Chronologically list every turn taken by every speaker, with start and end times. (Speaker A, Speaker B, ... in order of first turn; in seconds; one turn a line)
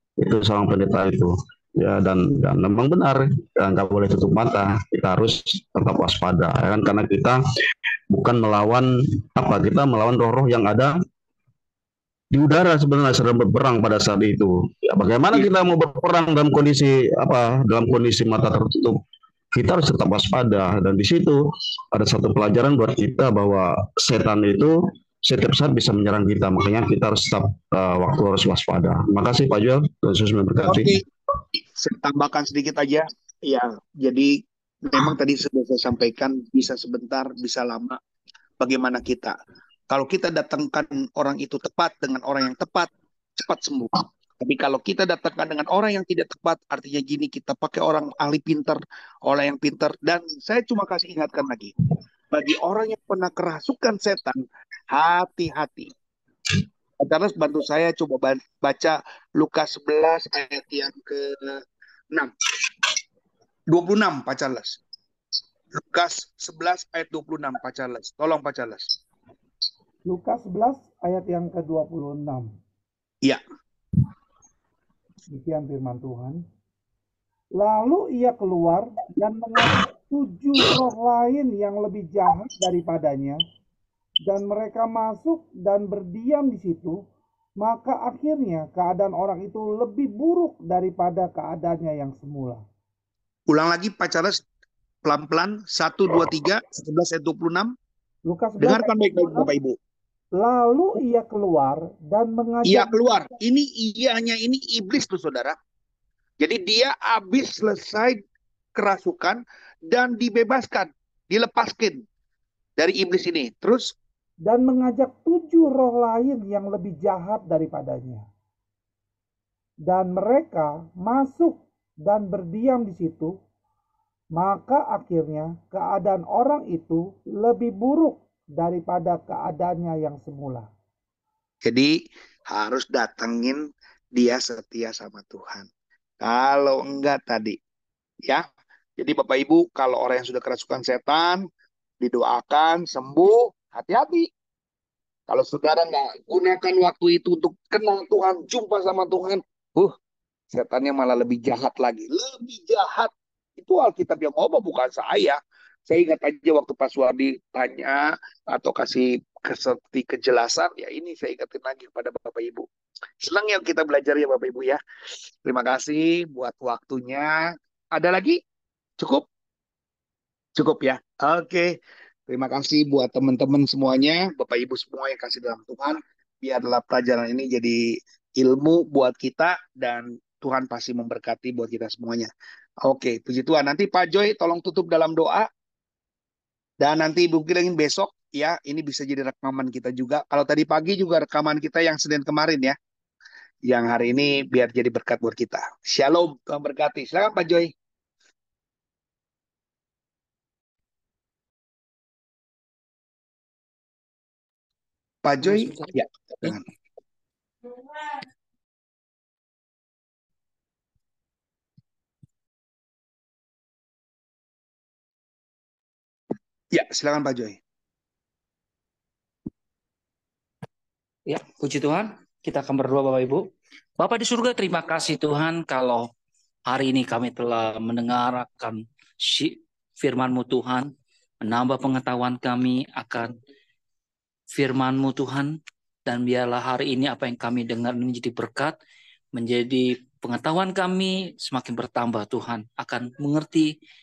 Speaker A: 0.2-7.4
Speaker A: 8.1-11.0
Speaker A: 12.3-19.0
Speaker A: 19.6-21.4
Speaker A: 21.9-31.0
Speaker B: 30.6-31.0
Speaker B: 31.8-38.0
Speaker B: 38.6-39.4
Speaker B: 39.9-51.7
Speaker B: 52.3-55.9
Speaker B: 57.0-62.3
Speaker B: 63.7-64.8
Speaker B: 65.7-68.9
Speaker C: 70.0-72.5
Speaker C: 75.3-76.4
Speaker C: 77.6-83.4
Speaker C: 84.3-87.0
Speaker C: 87.6-92.6
Speaker B: 93.5-94.4
Speaker B: 95.0-97.7
Speaker C: 98.3-99.5
Speaker B: 98.6-99.8
Speaker C: 100.3-102.9
Speaker B: 102.6-105.6
Speaker B: 106.4-108.2
Speaker B: 108.8-112.0
Speaker B: 112.8-113.9
Speaker C: 114.5-118.3
Speaker C: 119.9-123.3
Speaker C: 124.3-130.7
Speaker B: 131.7-135.7
Speaker B: 136.2-137.6
Speaker B: 139.0-141.4
Speaker B: 142.0-144.3
Speaker B: 145.3-149.9
Speaker B: 150.5-162.7
Speaker B: 163.2-164.8
Speaker B: 165.4-167.4
Speaker B: 167.9-168.4
Speaker B: 169.0-169.3
Speaker B: 170.6-171.8
Speaker B: 172.3-182.3
Speaker B: 182.8-185.5
Speaker B: 186.8-192.8
Speaker B: 193.7-197.7
Speaker B: 205.2-206.6
Speaker D: 205.4-205.9
Speaker B: 216.7-217.6
Speaker D: 221.3-223.4
Speaker D: 224.0-226.1
Speaker D: 226.7-230.9
Speaker D: 231.4-233.3
Speaker D: 234.5-235.6
Speaker D: 236.1-238.7
Speaker D: 239.3-243.7